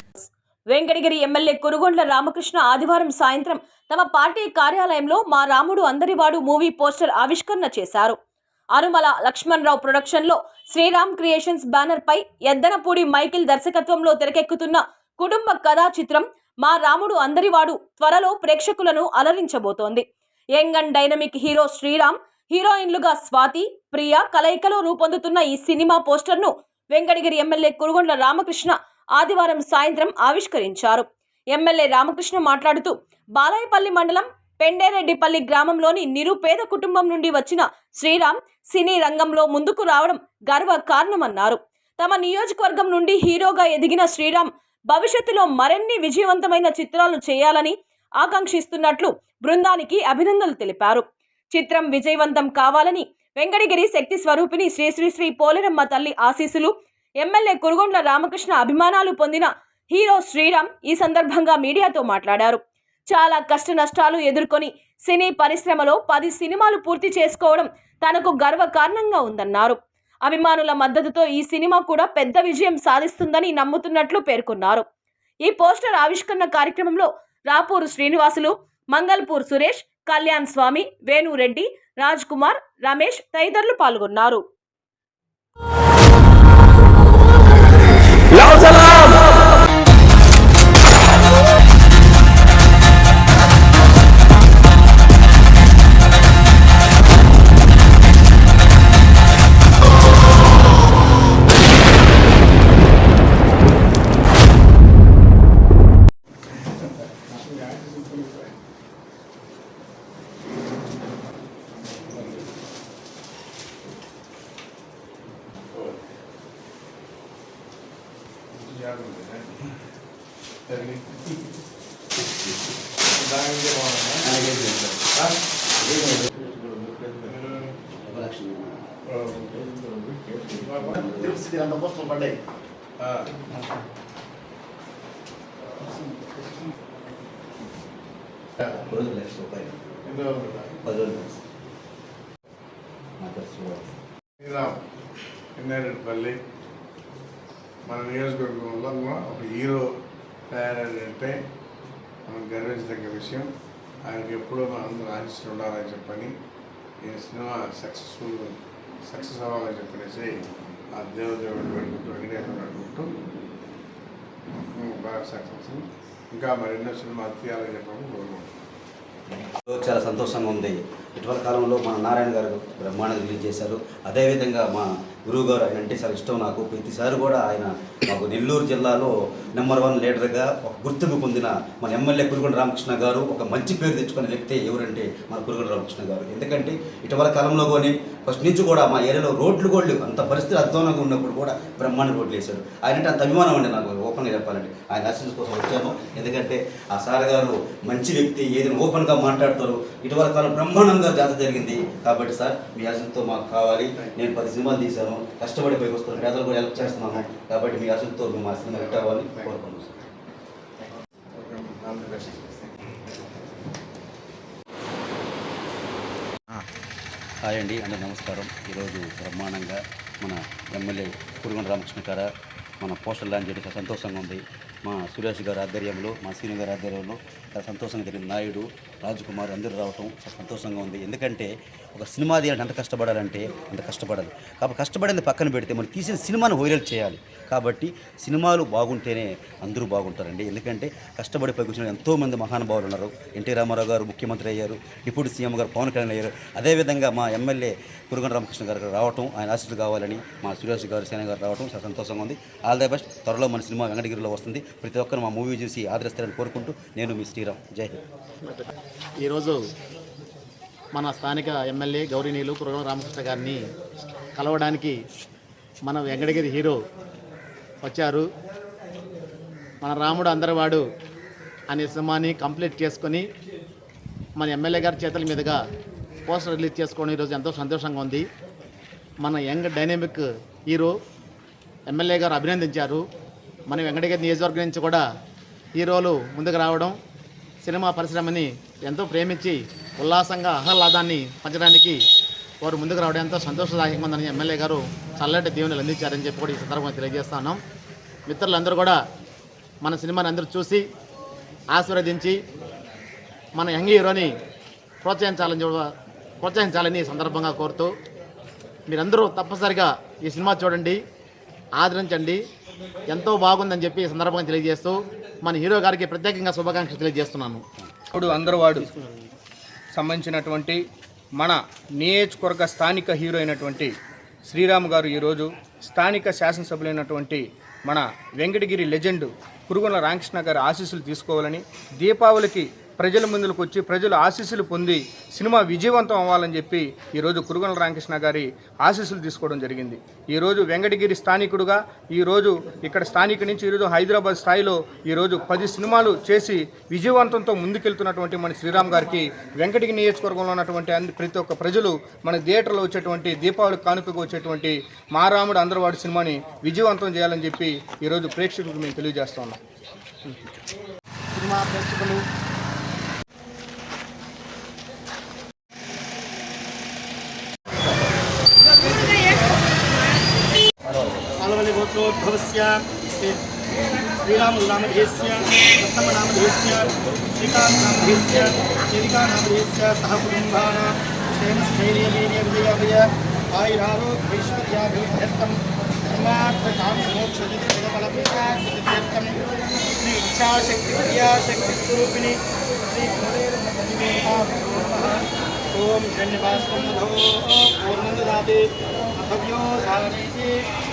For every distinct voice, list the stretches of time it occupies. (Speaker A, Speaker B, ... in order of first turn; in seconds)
Speaker A: 0.2-8.2, 8.7-74.8, 75.5-84.4
Speaker B: 107.3-108.5, 115.7-116.0, 118.5-119.6, 120.7-121.4, 123.1-124.3, 127.3-127.8, 129.1-129.5, 130.6-130.9, 133.0-133.3, 140.1-140.7, 144.4-144.8, 145.6-146.4, 147.9-149.9, 150.5-151.4, 152.3-153.5, 154.1-156.3, 157.0-163.1, 164.8-168.5, 208.7-209.6, 211.3-212.7
Speaker C: 124.2-127.4, 127.9-128.8, 129.5-131.4, 138.6-139.7, 140.8-141.4, 143.2-143.9, 169.6-209.9, 217.4-222.3, 222.8-258.0
Speaker D: 130.9-132.4, 259.2-259.6, 260.9-263.6, 264.4-264.9, 265.9-266.8, 267.8-268.2, 269.8-270.8, 271.7-273.2, 274.4-275.6, 276.3-278.2, 279.2-280.9, 281.9-283.0, 283.7-285.0, 285.8-286.9, 287.6-292.0, 292.6-297.6, 298.3-299.0, 299.8-300.8, 301.8-302.4, 303.6-304.3, 305.0-305.9, 306.4-307.9, 308.9-311.0, 311.8-312.4, 313.1-317.6, 361.3-362.2
Speaker E: 318.1-318.9, 319.9-320.8, 321.4-323.9, 324.5-359.6
Speaker F: 368.9-369.6, 371.3-373.4, 374.1-389.4, 390.0-398.7, 399.2-400.5